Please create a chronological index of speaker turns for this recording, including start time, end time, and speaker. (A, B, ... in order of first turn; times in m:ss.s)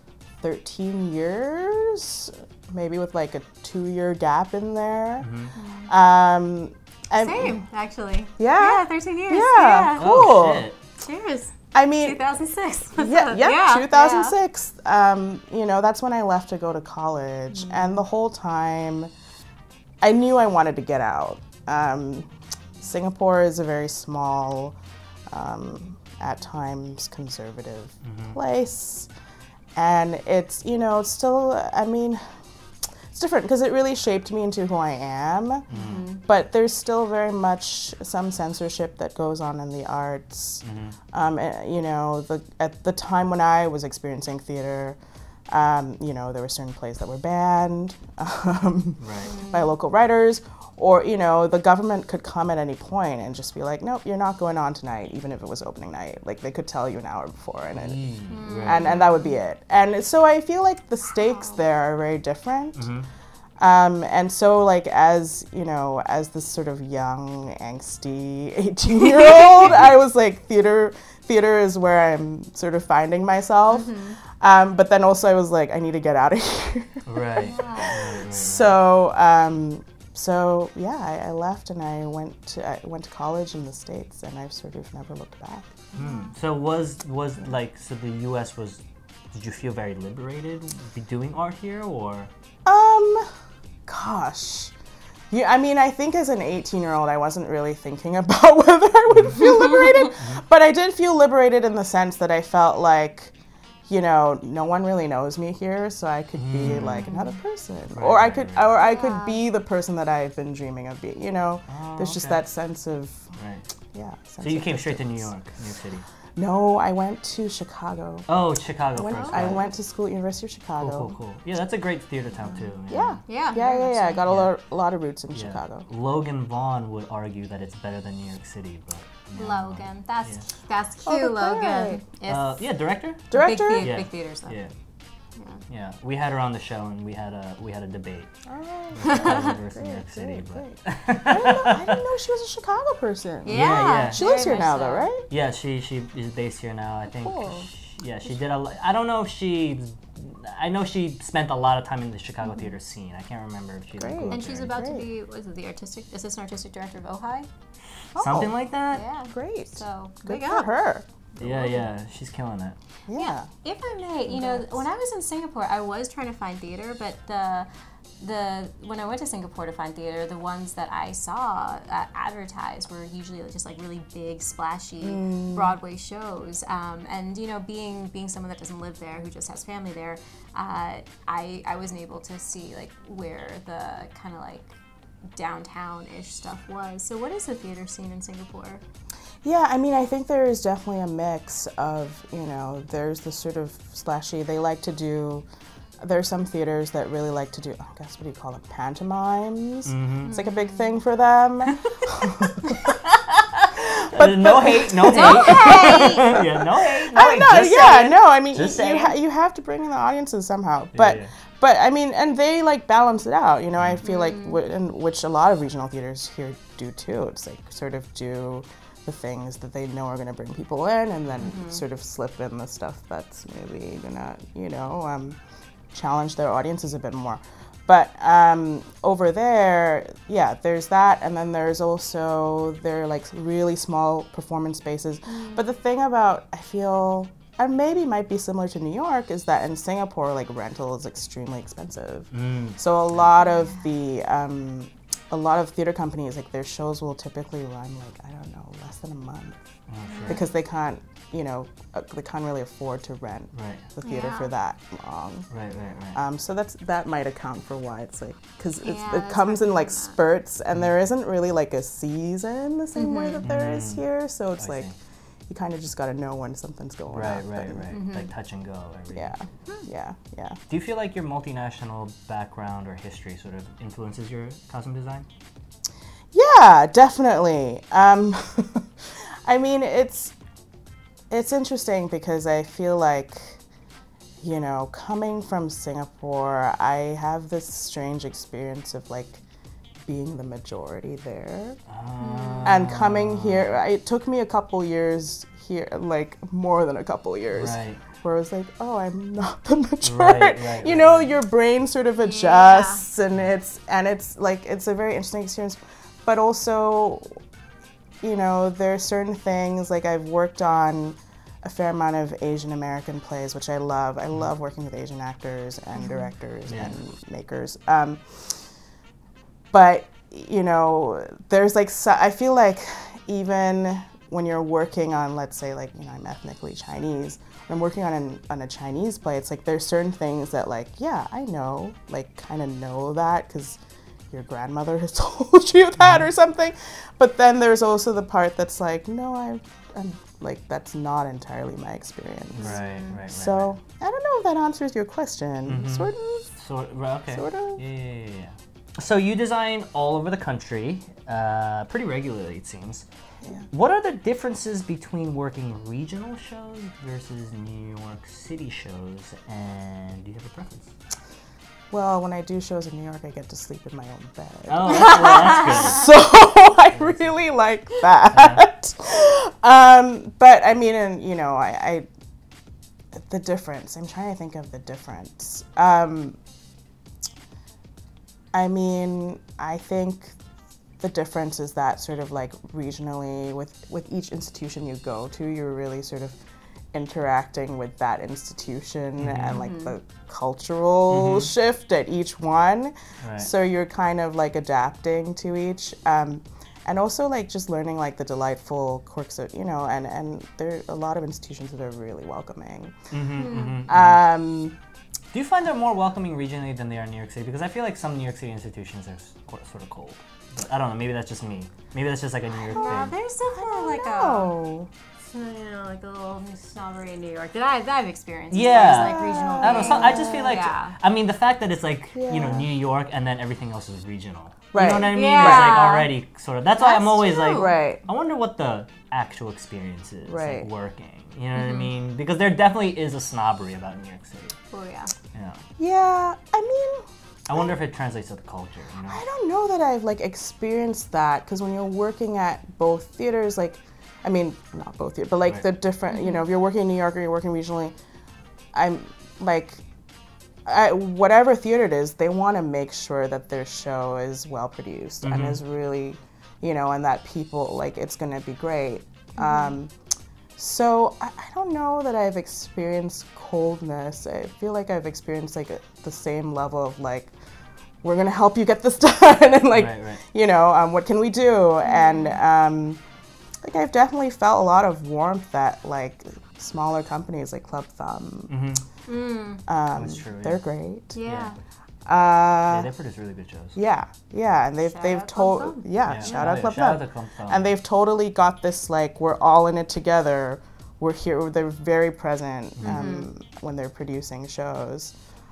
0:00.4-0:05.3 A
0:05.2-0:05.5 B
0:05.6-0:05.9 C
0:05.9-0:07.6 A
0:07.2-0:10.3 C
0:08.4-0:10.7 A
0:10.0-0:10.8 B
0:11.0-0:14.3 C
0:11.7-0:12.2 A
0:13.0-0:19.1 A
0:17.5-0:18.0 C
0:20.0-0:22.3 A
0:22.8-0:24.8 A
0:25.3-0:29.1 A
0:28.0-0:28.4 B
0:29.7-0:32.3 A
0:33.1-0:35.7 A
0:35.7-0:36.2 C
0:35.7-0:36.0 B
0:36.2-0:45.0 A
0:40.6-0:41.0 B
0:45.5-0:58.0 A
0:49.0-0:49.3 B
0:49.2-0:49.7 C
0:57.7-0:59.0 B
0:58.3-0:59.4 C
0:58.6-1:02.9 A
1:02.8-1:03.1 B
1:03.6-1:25.8 A
1:13.7-1:14.2 C
1:17.0-1:18.8 B
1:17.4-1:18.0 C
1:25.9-1:26.3 C
1:25.9-1:28.8 B
1:29.3-1:32.3 B
1:32.6-1:33.3 A
1:33.9-1:34.7 A
1:35.3-1:43.3 A
1:39.1-1:39.4 B
1:40.1-1:40.4 B
1:43.9-1:53.3 A
1:46.3-1:47.1 B
1:46.9-1:47.4 C
1:47.9-1:48.9 B
1:48.8-1:49.4 C
1:51.7-1:52.4 B
1:53.4-1:53.6 B
1:53.9-1:55.3 A
1:54.4-1:56.0 B
1:56.4-1:58.3 A
1:58.3-1:59.6 B
1:59.0-2:01.1 A
1:59.0-1:59.4 C
2:00.8-2:03.2 B
2:02.9-2:05.9 A
2:03.3-2:04.2 C
2:04.2-2:04.5 B
2:05.3-2:10.4 B
2:09.4-2:12.6 C
2:11.0-2:12.0 A
2:12.3-2:14.7 B
2:13.3-2:14.0 A
2:13.3-2:14.5 C
2:15.7-2:18.3 B
2:18.5-2:25.2 A
2:18.9-2:22.0 B
2:19.0-2:19.5 C
2:23.4-2:25.1 C
2:23.5-2:24.5 B
2:25.3-2:34.8 B
2:27.2-2:27.7 A
2:34.0-2:35.0 A
2:34.3-2:37.5 C
2:38.1-2:38.5 A
2:38.2-2:39.0 B
2:38.9-2:40.7 C
2:39.2-2:41.8 A
2:41.4-2:42.8 B
2:43.1-2:43.5 A
2:43.1-2:47.7 C
2:44.3-2:44.8 A
2:48.2-3:04.8 C
2:55.0-2:55.7 A
3:05.4-3:08.8 C
3:09.4-3:15.4 A
3:16.0-3:23.0 A
3:19.9-3:20.4 B
3:20.2-3:20.9 C
3:22.9-3:29.1 B
3:23.7-3:45.4 A
3:25.1-3:26.4 C
3:30.9-3:31.3 B
3:33.8-3:34.0 B
3:34.0-3:34.6 C
3:41.4-3:41.8 C
3:45.9-4:09.6 A
3:55.3-3:55.6 C
4:02.3-4:02.8 B
4:03.4-4:03.8 C
4:09.9-4:10.4 B
4:10.0-4:10.4 C
4:10.2-4:15.5 A
4:13.5-4:13.9 B
4:14.0-4:14.5 C
4:15.5-4:16.2 B
4:16.1-4:24.9 A
4:18.8-4:20.2 C
4:22.9-4:23.4 C
4:23.4-4:24.0 B
4:24.6-4:24.9 B
4:25.5-4:27.9 A
4:27.1-4:29.3 B
4:27.9-4:28.3 C
4:29.1-4:30.6 A
4:30.7-4:35.2 B
4:36.3-4:40.3 A
4:41.3-4:43.6 A
4:44.4-4:49.4 A
4:50.0-4:51.8 A
4:51.9-4:53.7 B
4:52.2-4:52.8 C
4:52.6-5:07.4 A
4:57.5-4:58.0 B
5:00.0-5:01.3 B
5:02.2-5:03.0 C
5:08.2-5:18.7 A
5:16.0-5:16.3 C
5:16.7-5:16.9 B
5:19.7-5:46.5 A
5:42.5-5:43.8 B
5:42.6-5:43.2 C
5:45.7-5:53.0 B
5:47.3-5:47.8 A
5:53.7-6:00.9 B
6:01.9-6:12.0 A
6:04.7-6:06.1 B
6:06.9-6:07.3 B
6:08.3-6:08.6 B
6:13.1-6:16.4 A
6:18.5-6:20.4 A
6:21.0-6:26.4 A
6:26.9-6:43.1 A
6:29.2-6:29.6 B
6:29.6-6:29.9 C
6:31.1-6:31.5 B
6:33.2-6:33.5 B
6:43.1-6:44.3 B
6:43.3-6:43.8 C
6:43.9-6:44.8 A
6:45.3-6:53.1 B
6:52.6-6:54.5 C
6:52.7-6:54.9 A
6:55.3-7:00.9 C
6:58.5-7:14.6 B
6:58.9-7:00.6 A
7:02.1-7:02.7 A
7:04.7-7:05.8 A
7:05.0-7:06.1 C
7:06.8-7:07.7 C
7:07.5-7:08.0 A
7:10.2-7:10.7 A
7:11.5-7:11.9 C
7:14.7-7:15.1 C
7:15.3-7:15.6 B
7:15.8-7:17.7 A
7:17.5-7:19.2 B
7:19.1-7:27.9 A
7:26.1-7:26.4 C
7:28.7-7:29.8 A
7:30.6-7:39.9 A
7:35.2-7:35.6 B
7:39.4-7:39.7 C
7:40.6-7:47.3 A
7:48.0-7:53.0 A
7:49.7-7:50.2 B
7:51.8-7:52.4 C
7:53.6-7:58.5 A
7:58.5-7:58.8 B
7:59.0-7:59.6 C
7:59.7-8:01.2 A
7:59.9-8:00.6 B
8:01.1-8:01.6 C
8:01.2-8:01.5 B
8:02.0-8:02.9 A
8:02.7-8:03.8 B
8:03.8-8:15.1 A
8:04.8-8:06.4 C
8:06.0-8:07.7 B
8:12.8-8:13.1 B
8:12.8-8:13.3 C